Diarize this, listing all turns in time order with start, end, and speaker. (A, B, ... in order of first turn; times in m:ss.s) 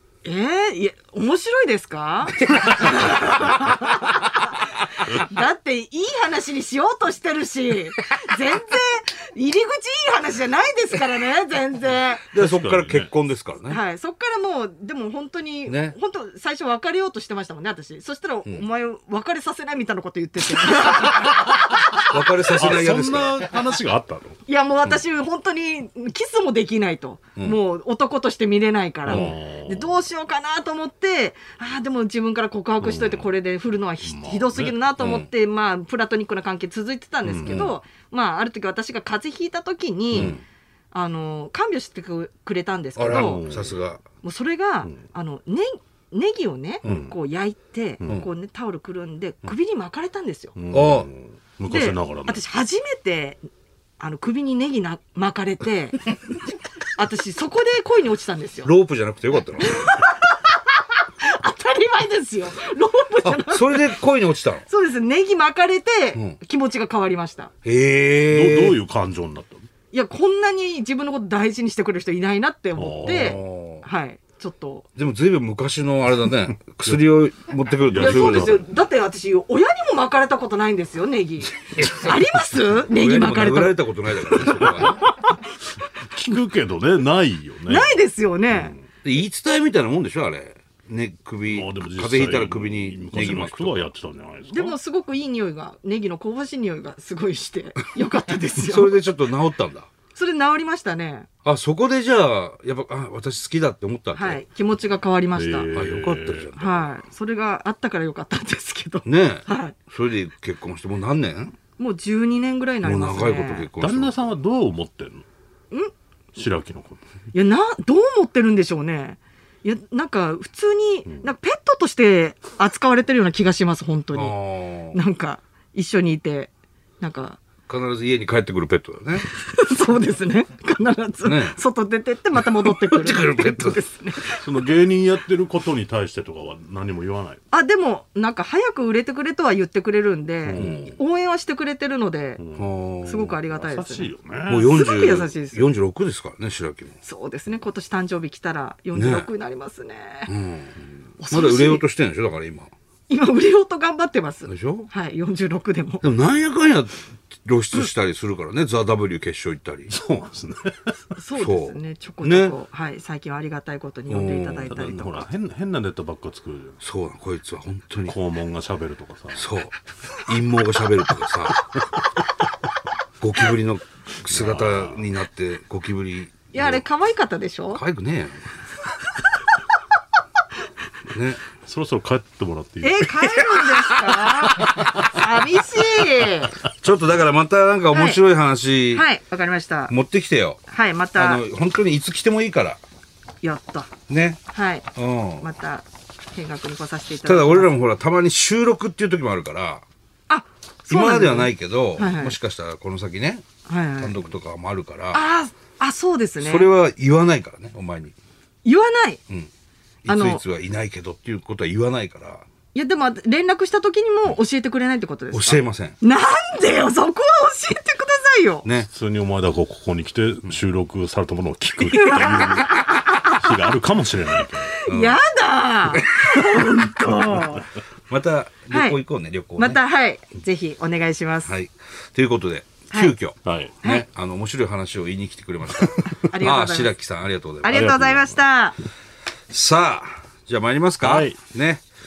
0:00.2-0:12.2 A
0:02.6-0:03.3 B
0:12.3-0:13.8 B
0:12.4-0:13.1 C
0:13.7-0:22.1 A
0:15.7-0:16.0 B
0:22.1-0:23.4 B
0:22.5-0:24.4 C
0:24.5-0:40.4 A
0:29.1-0:30.0 C
0:32.8-0:33.3 C
0:34.0-0:35.2 C
0:35.0-0:35.3 B
0:37.2-0:37.7 B
0:37.3-0:37.7 C
0:40.1-0:40.4 C
0:40.1-0:40.4 B
0:40.9-0:43.4 A
0:43.0-0:44.0 B
0:43.0-0:43.8 C
0:44.2-0:50.6 A
0:46.9-0:47.1 C
0:50.6-0:52.4 C
0:50.7-0:51.1 B
0:51.7-0:53.4 A
0:54.0-0:56.2 A
0:57.0-0:58.7 A
0:58.6-0:59.9 B
0:59.6-1:03.9 A
1:03.2-1:04.6 B
1:04.7-1:07.5 A
1:07.6-1:08.8 B
1:08.3-1:09.7 C
1:09.9-1:14.9 A
1:12.8-1:13.4 C
1:13.1-1:13.9 B
1:15.0-1:18.6 B
1:17.9-1:18.7 C
1:18.0-1:25.4 A
1:21.8-1:22.2 B
1:22.9-1:25.0 B
1:26.1-1:28.8 C
1:27.7-1:28.8 A
1:29.0-1:33.9 B
1:31.5-1:34.8 C
1:34.5-1:39.0 A
1:38.6-1:39.9 B
1:40.2-1:41.3 A
1:41.4-1:44.4 B
1:44.1-1:45.7 A
1:45.4-1:46.5 C
1:45.7-1:46.9 B
1:46.6-1:49.8 A
1:49.0-1:51.6 B
1:51.8-1:53.7 A
1:52.8-1:54.2 B
1:53.8-1:55.3 C
1:56.3-1:57.1 C
1:57.3-2:04.4 A
2:04.1-2:05.0 B
2:04.9-2:07.4 A
2:07.7-2:09.3 B
2:09.3-2:14.4 A
2:11.2-2:11.6 B
2:12.6-2:13.8 B
2:14.4-2:17.4 C
2:17.5-2:22.4 A
2:20.4-2:20.9 C
2:20.6-2:21.0 B
2:22.4-2:22.7 C
2:22.6-2:23.4 B
2:23.0-2:25.6 A
2:23.5-2:24.8 C
2:24.5-2:27.0 B
2:27.0-2:30.3 A
2:29.0-2:29.3 B
2:30.3-2:30.8 B
2:31.2-2:31.8 A
2:31.3-2:32.7 B
2:33.1-2:36.0 A
2:34.5-2:34.9 B
2:36.0-2:39.9 B
2:39.9-2:41.2 C
2:41.2-2:45.3 A
2:41.4-2:42.5 B
2:44.1-2:44.8 B
2:44.7-2:46.8 C
2:46.8-2:48.2 B
2:48.1-2:49.5 C
2:49.4-2:49.8 B
2:50.3-2:51.7 B
2:53.2-2:56.8 B
2:54.3-2:55.0 C
2:56.5-2:57.8 A
2:57.7-2:58.4 B
3:01.1-3:01.4 B
3:01.6-3:03.7 C
3:02.8-3:06.6 A
3:04.6-3:05.1 C
3:06.8-3:09.0 B
3:07.9-3:08.2 A
3:08.9-3:09.9 A
3:09.9-3:10.6 B
3:10.7-3:11.4 A
3:11.2-3:12.8 B
3:13.4-3:13.9 A
3:14.1-3:14.4 B
3:14.5-3:14.9 A
3:15.0-3:15.5 B
3:15.4-3:17.7 A
3:17.2-3:19.8 B
3:20.3-3:22.4 A
3:20.9-3:23.5 B
3:23.7-3:24.2 A
3:24.0-3:25.2 B
3:25.1-3:26.7 A
3:26.4-3:28.2 B
3:28.6-3:29.2 A
3:30.0-3:32.5 B
3:30.1-3:30.4 A
3:32.7-3:38.7 A
3:35.3-3:36.0 B
3:38.9-3:44.8 C
3:41.9-3:43.4 A
3:44.7-3:47.7 A
3:44.9-3:45.2 B
3:45.9-3:46.8 B
3:48.1-3:49.8 B
3:48.7-3:49.0 A
3:49.6-3:51.5 A
3:51.5-3:58.2 B
3:53.4-3:53.8 C
3:56.2-3:56.9 A
3:57.6-3:58.8 A
3:57.7-3:58.4 C
3:59.5-4:01.8 B
4:01.0-4:01.4 C